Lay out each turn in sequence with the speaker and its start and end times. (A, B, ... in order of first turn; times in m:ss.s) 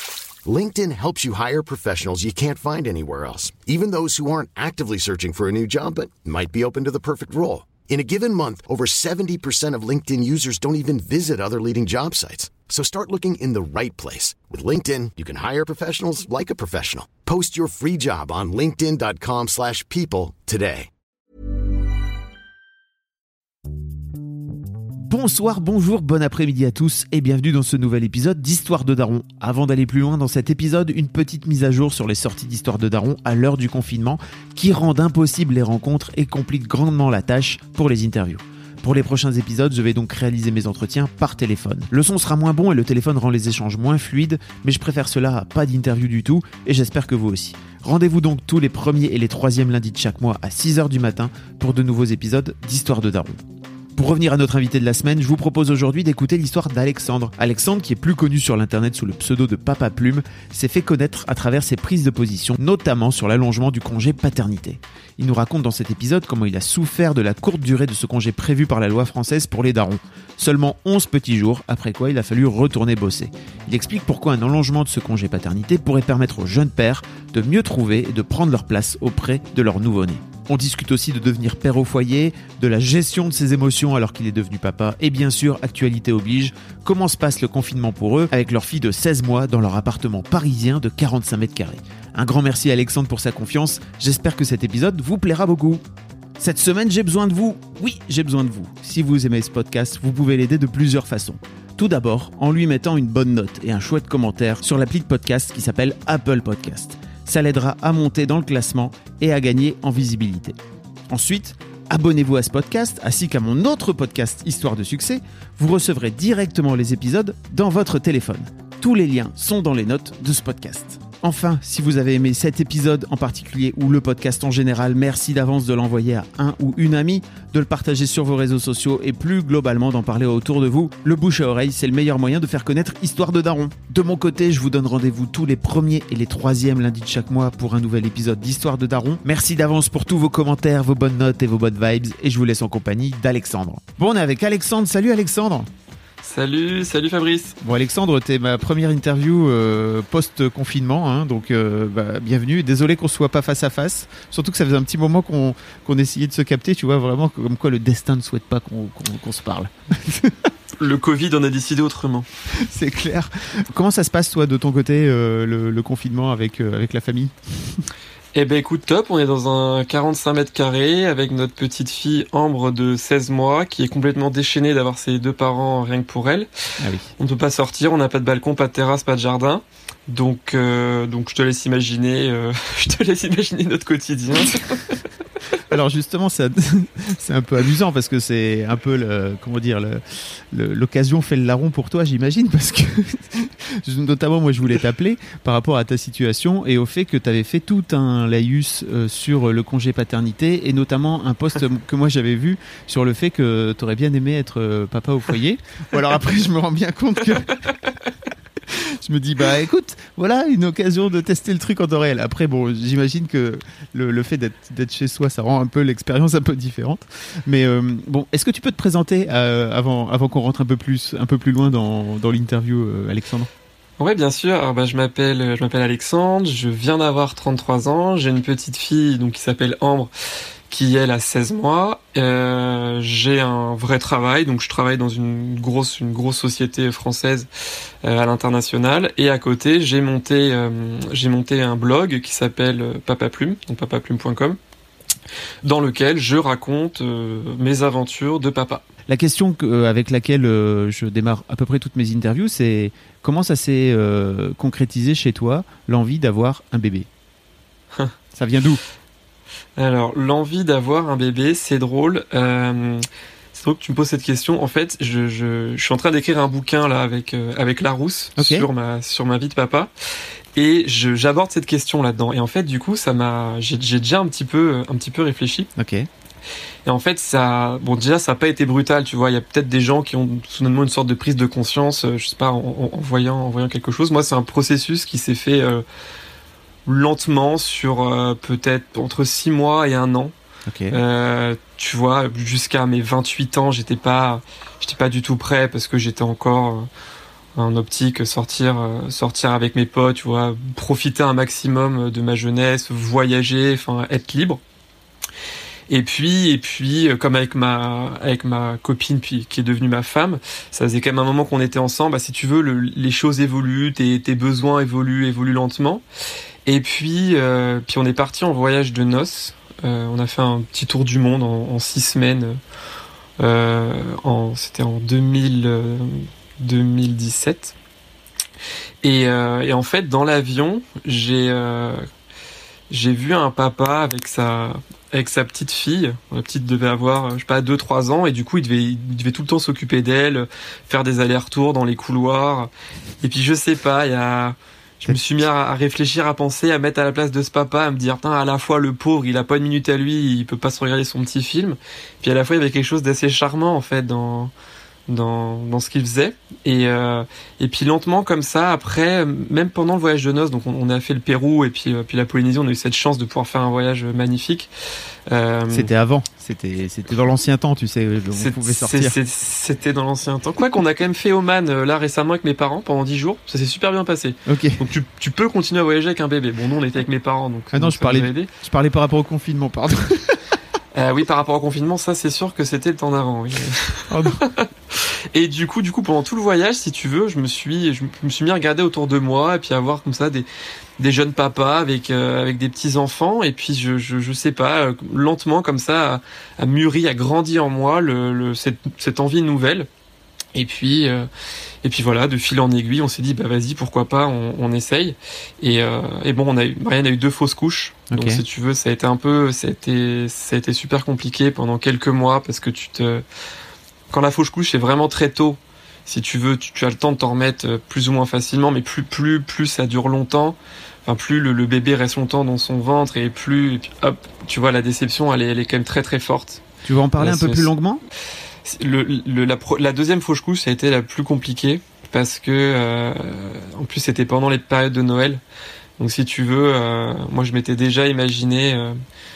0:00.4-0:20.9 A
0:25.0-0:53.4 B
0:54.0-1:35.8 B
1:36.4-1:50.6 B
1:51.1-2:25.7 B
2:26.2-2:27.6 C
2:27.6-2:40.5 B
2:40.8-2:42.3 C
2:42.5-2:47.9 B
2:48.3-2:56.5 C
2:56.8-2:57.1 B
2:57.2-3:05.0 C
3:05.6-3:27.9 B
3:28.7-3:43.5 B
3:44.0-3:50.1 C
3:50.7-3:57.5 C
3:58.0-4:04.6 C
4:05.6-4:08.8 C
4:09.1-4:17.1 B
4:18.3-4:18.8 B
4:19.8-4:29.9 C
4:28.4-4:28.7 B
4:30.6-4:35.7 C
4:35.8-4:36.1 B
4:36.8-4:45.8 C
4:46.8-4:50.3 C
4:50.6-4:51.0 B
4:50.9-4:56.9 C
4:57.5-5:04.6 C
5:05.9-5:16.0 C
5:16.6-5:22.6 C
5:23.4-5:27.7 C
5:29.0-5:32.0 C
5:32.9-5:42.7 C
5:43.2-5:54.5 C
5:55.1-6:04.7 C
6:05.3-6:05.9 C
6:05.7-6:09.2 B
6:08.3-6:18.5 C
6:14.4-6:14.8 B
6:17.7-6:20.5 B
6:20.9-6:30.4 C
6:24.1-6:24.4 B
6:31.0-6:39.9 C
6:40.5-6:41.3 C
6:41.8-6:53.2 C
6:48.1-6:48.4 B
6:54.1-7:06.6 C
7:06.8-7:08.0 B
7:07.2-7:07.7 C
7:08.6-7:15.4 C
7:16.0-7:19.0 C